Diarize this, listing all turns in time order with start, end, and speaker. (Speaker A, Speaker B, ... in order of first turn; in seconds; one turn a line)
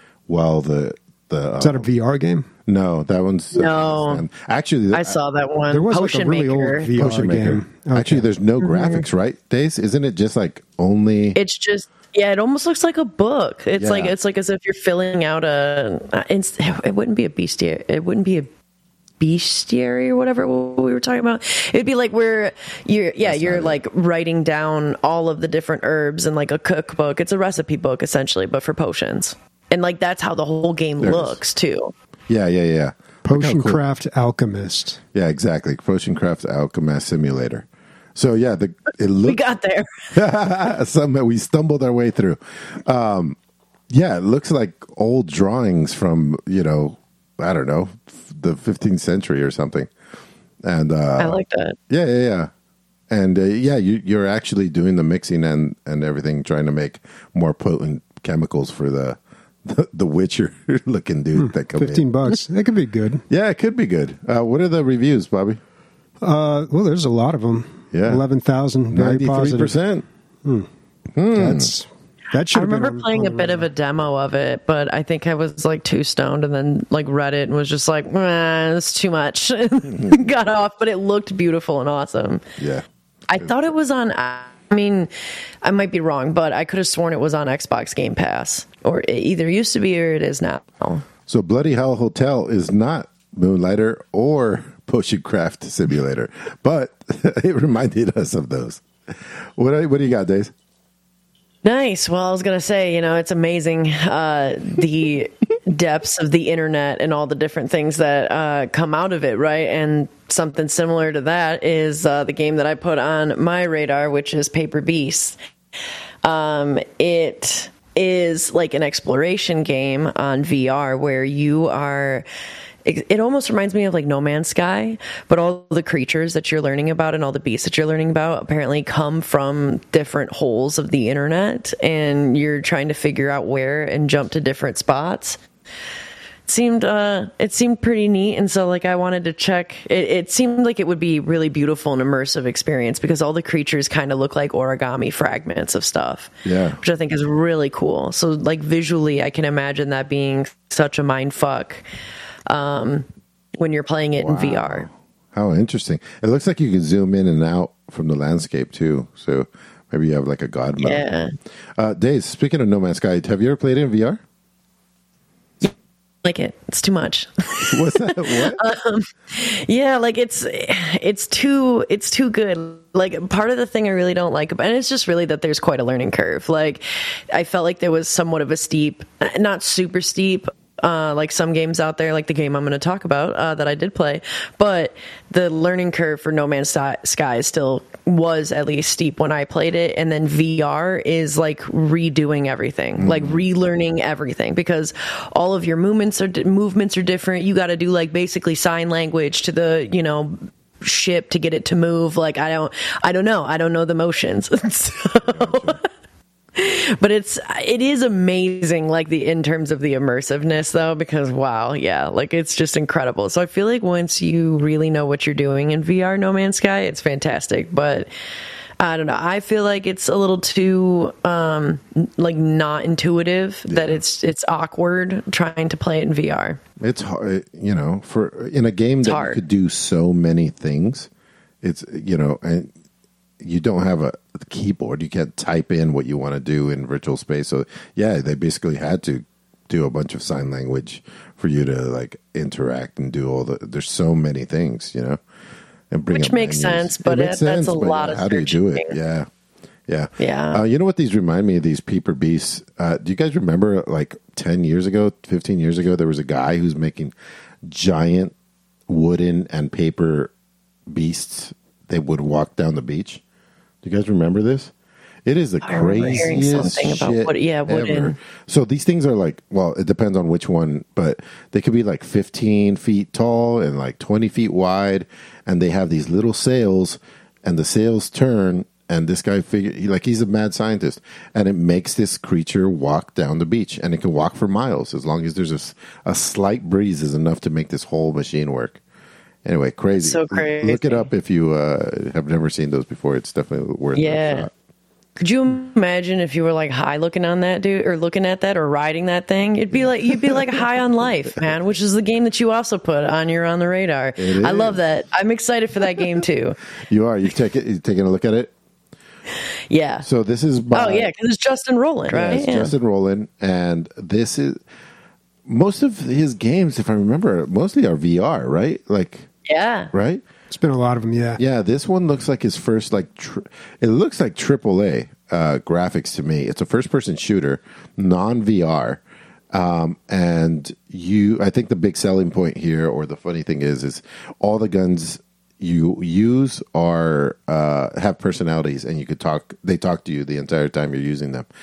Speaker A: 0.3-1.9
Speaker B: 1.6-2.5
Speaker A: 2.7-5.2
Speaker C: 3.5-4.3
Speaker C: 4.9-7.0
Speaker B: 5.7-8.3
Speaker A: 7.0-11.4
Speaker C: 8.6-9.0
Speaker C: 11.4-18.5
Speaker A: 13.8-14.1
Speaker C: 19.2-31.9
Speaker A: 23.2-23.8
Speaker A: 31.0-31.4
Speaker A: 32.3-33.8
Speaker B: 33.2-35.0
Speaker A: 35.1-39.4
Speaker C: 39.2-39.9
Speaker A: 40.1-43.4
Speaker A: 43.9-49.9
Speaker A: 50.6-51.4
Speaker C: 51.2-51.8
Speaker A: 51.9-52.5
Speaker A: 53.1-62.1
Speaker B: 61.4-63.2
Speaker A: 63.3-65.6
Speaker B: 66.2-69.7
Speaker A: 67.9-68.2
Speaker A: 68.9-70.0
Speaker A: 71.2-71.7
Speaker B: 71.3-73.7
Speaker C: 72.5-82.4
Speaker A: 82.6-82.8
Speaker C: 83.3-85.1
Speaker C: 85.6-91.0
Speaker A: 91.3-100.5
Speaker C: 101.6-115.4
Speaker C: 116.2-122.3
Speaker C: 122.8-135.4
Speaker C: 136.5-151.8
Speaker A: 146.4-146.8
Speaker C: 152.5-153.1
Speaker C: 153.6-154.9
Speaker A: 154.2-161.0
Speaker C: 160.8-161.3
Speaker A: 161.8-164.2
Speaker C: 165.6-205.8
Speaker A: 167.7-168.6
Speaker A: 193.0-193.4
Speaker A: 205.2-205.8
Speaker C: 206.6-218.1
Speaker C: 218.8-226.6
Speaker A: 223.7-224.0
Speaker A: 226.8-231.1
Speaker C: 229.0-229.4
Speaker A: 231.6-232.7
Speaker A: 233.4-245.2
Speaker A: 245.9-249.3
Speaker C: 246.1-248.9
Speaker A: 249.9-257.1
Speaker C: 250.2-250.6
Speaker A: 257.6-258.3
Speaker A: 258.9-260.3
Speaker A: 260.9-263.2
Speaker A: 263.8-264.7
Speaker A: 265.2-288.8
Speaker C: 265.6-268.2
Speaker A: 289.4-294.5
Speaker C: 290.0-291.1
Speaker C: 293.9-294.5
Speaker C: 295.2-306.6
Speaker A: 304.2-304.8
Speaker A: 306.9-308.5
Speaker C: 309.7-310.1
Speaker A: 310.0-311.1
Speaker C: 310.7-312.7
Speaker A: 312.1-314.6
Speaker A: 315.5-319.3
Speaker C: 319.5-319.9
Speaker A: 319.9-320.2
Speaker B: 320.5-321.4
Speaker A: 321.4-341.5